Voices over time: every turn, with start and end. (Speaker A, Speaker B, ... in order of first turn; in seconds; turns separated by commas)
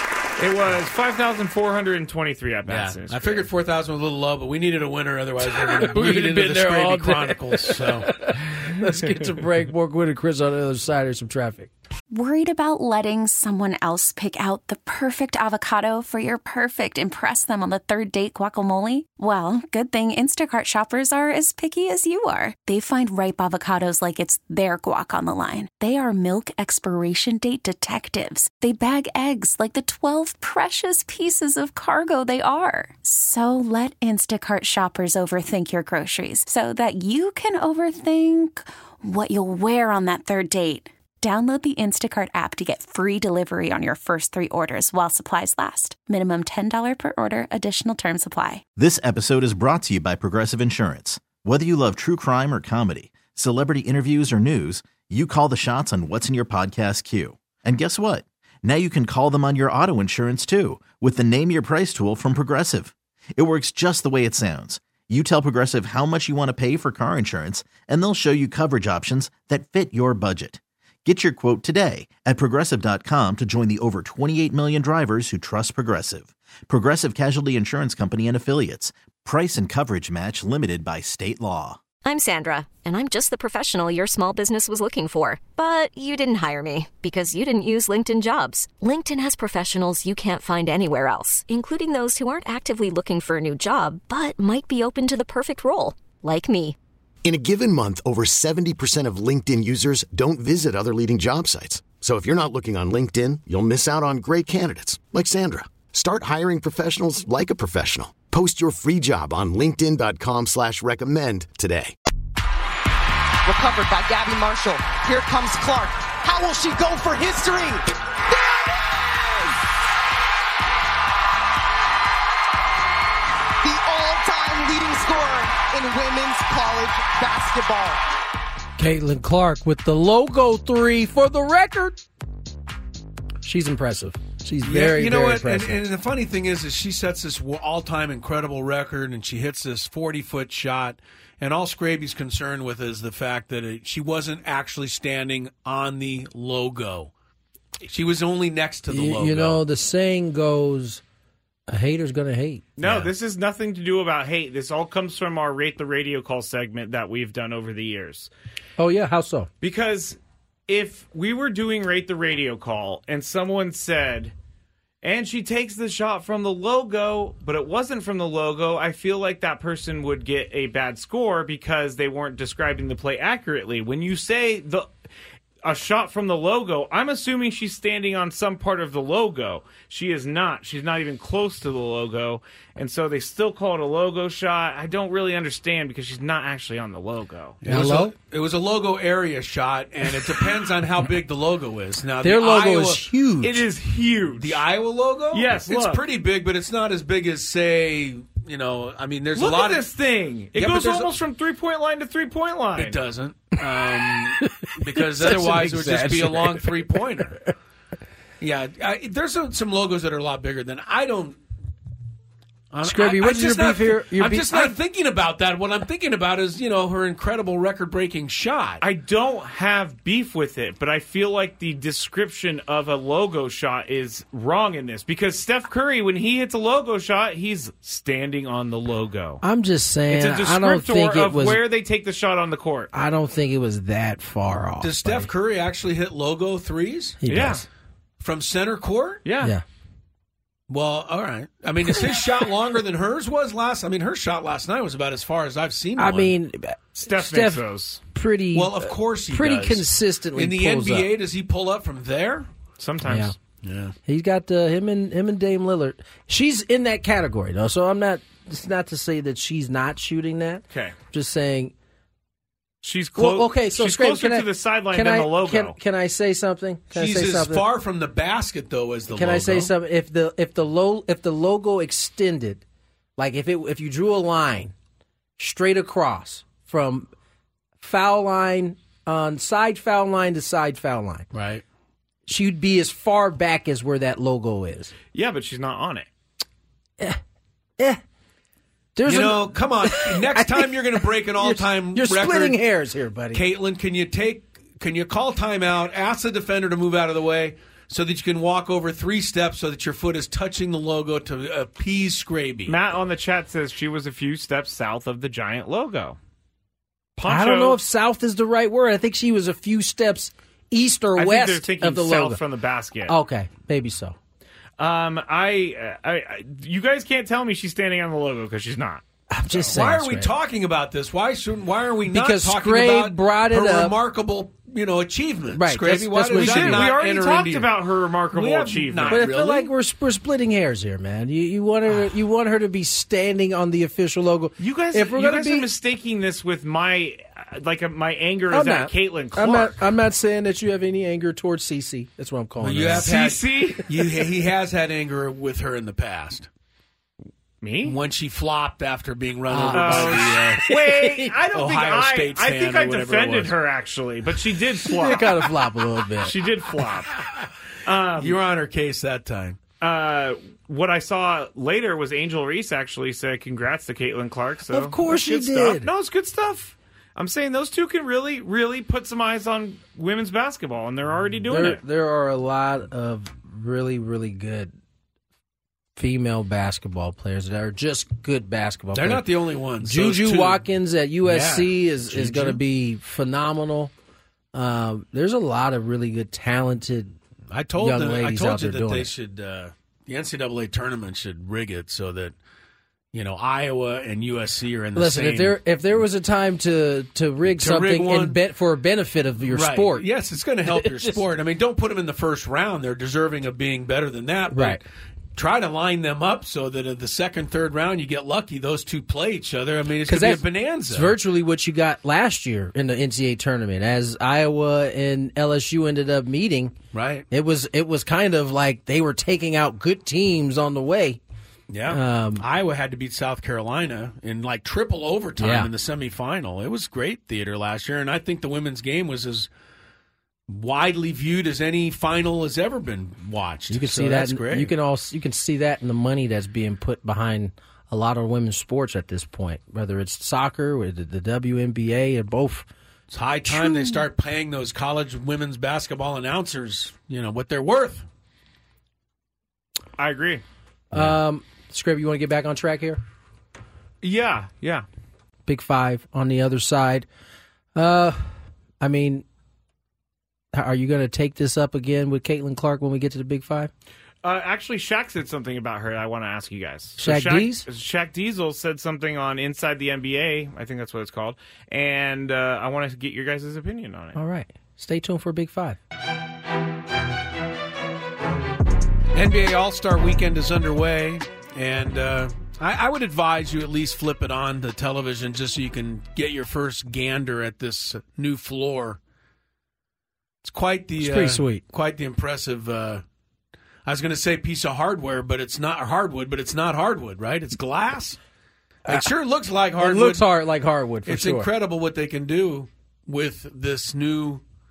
Speaker A: 0.4-3.5, Speaker B: 2.7-8.1, Speaker C: 5.4-11.7, Speaker D: 12.1-48.6, Speaker E: 48.8-81.8, Speaker F: 82.0-96.8, Speaker G: 97.2-111.9, Speaker H: 113.5-119.5, Speaker H: 123.6-128.0, Speaker C: 128.8-132.0, Speaker C: 133.4-135.8, Speaker B: 134.6-147.1, Speaker B: 147.8-149.6, Speaker C: 148.9-151.0, Speaker C: 151.7-153.1, Speaker A: 152.8-158.3, Speaker C: 158.8-159.5, Speaker A: 159.6-164.3, Speaker A: 165.0-174.9, Speaker A: 175.6-187.6, Speaker B: 187.6-193.0, Speaker C: 187.7-188.1, Speaker C: 192.2-193.7, Speaker A: 193.4-194.6, Speaker B: 194.4-199.8, Speaker A: 195.3-196.0, Speaker A: 199.3-203.0, Speaker B: 200.5-201.1, Speaker B: 202.8-207.4, Speaker C: 204.0-207.2, Speaker B: 208.4-211.4, Speaker B: 212.7-218.8, Speaker C: 212.8-214.8, Speaker A: 218.8-229.4, Speaker C: 229.4-231.6, Speaker A: 230.1-232.9, Speaker C: 232.9-235.3, Speaker B: 234.8-237.2, Speaker C: 237.2-237.7, Speaker A: 237.3-237.6, Speaker B: 238.2-239.2, Speaker A: 239.2-239.6, Speaker B: 240.7-246.3, Speaker C: 246.0-251.1, Speaker A: 247.0-248.0, Speaker B: 248.5-252.5, Speaker A: 252.8-253.3, Speaker C: 253.1-253.3, Speaker B: 253.6-253.9, Speaker C: 254.1-261.7, Speaker A: 262.8-265.8, Speaker C: 263.2-267.7, Speaker B: 266.9-269.7, Speaker C: 269.1-272.6, Speaker C: 273.2-274.7, Speaker C: 275.4-277.1, Speaker C: 277.8-281.3, Speaker B: 281.3-281.6, Speaker C: 282.3-284.9, Speaker A: 285.1-286.1, Speaker C: 289.0-293.4, Speaker B: 289.1-292.6, Speaker B: 293.3-302.8, Speaker A: 302.7-306.2, Speaker A: 307.2-307.8, Speaker C: 307.2-312.4, Speaker A: 311.2-313.2, Speaker C: 313.1-314.2, Speaker A: 314.8-319.7, Speaker C: 319.3-320.3, Speaker B: 319.7-329.7, Speaker C: 322.1-324.0, Speaker C: 325.5-326.9, Speaker A: 326.3-329.3, Speaker C: 329.1-335.7, Speaker A: 334.6-339.8, Speaker C: 338.5-343.1, Speaker B: 342.6-346.5, Speaker A: 342.9-343.8, Speaker A: 347.6-348.0, Speaker B: 347.8-350.7, Speaker C: 349.5-351.3, Speaker A: 349.7-355.5, Speaker B: 351.5-353.6, Speaker C: 354.8-356.4, Speaker A: 356.2-357.2, Speaker A: 357.9-358.4, Speaker B: 358.2-359.6, Speaker A: 359.8-371.8, Speaker C: 364.7-365.9, Speaker C: 371.5-374.7, Speaker C: 376.0-379.3, Speaker B: 378.9-380.6, Speaker C: 379.8-383.9, Speaker B: 381.2-382.6, Speaker C: 384.5-387.2, Speaker B: 387.5-392.4, Speaker C: 387.8-389.1, Speaker B: 393.1-395.6, Speaker C: 394.9-400.1, Speaker B: 397.5-398.4, Speaker B: 399.5-404.8, Speaker C: 400.7-401.2, Speaker C: 404.5-404.8, Speaker B: 405.4-411.2, Speaker C: 410.1-416.8, Speaker B: 416.9-417.3, Speaker C: 417.3-421.2, Speaker B: 421.7-429.5, Speaker C: 421.9-422.5, Speaker C: 425.4-425.7, Speaker B: 430.5-434.7, Speaker C: 433.7-442.7, Speaker B: 443.1-448.1, Speaker C: 443.5-444.1, Speaker A: 450.0-450.4, Speaker C: 450.9-453.0, Speaker A: 454.0-454.9, Speaker C: 455.5-457.1, Speaker C: 457.8-458.3, Speaker C: 458.8-459.2, Speaker C: 460.5-463.7, Speaker A: 464.2-474.2, Speaker C: 467.0-467.7, Speaker C: 474.1-475.8, Speaker B: 479.1-489.0, Speaker B: 490.4-493.0, Speaker C: 491.0-491.6, Speaker B: 493.9-498.2, Speaker B: 498.9-500.2, Speaker C: 499.8-501.5, Speaker B: 501.1-504.4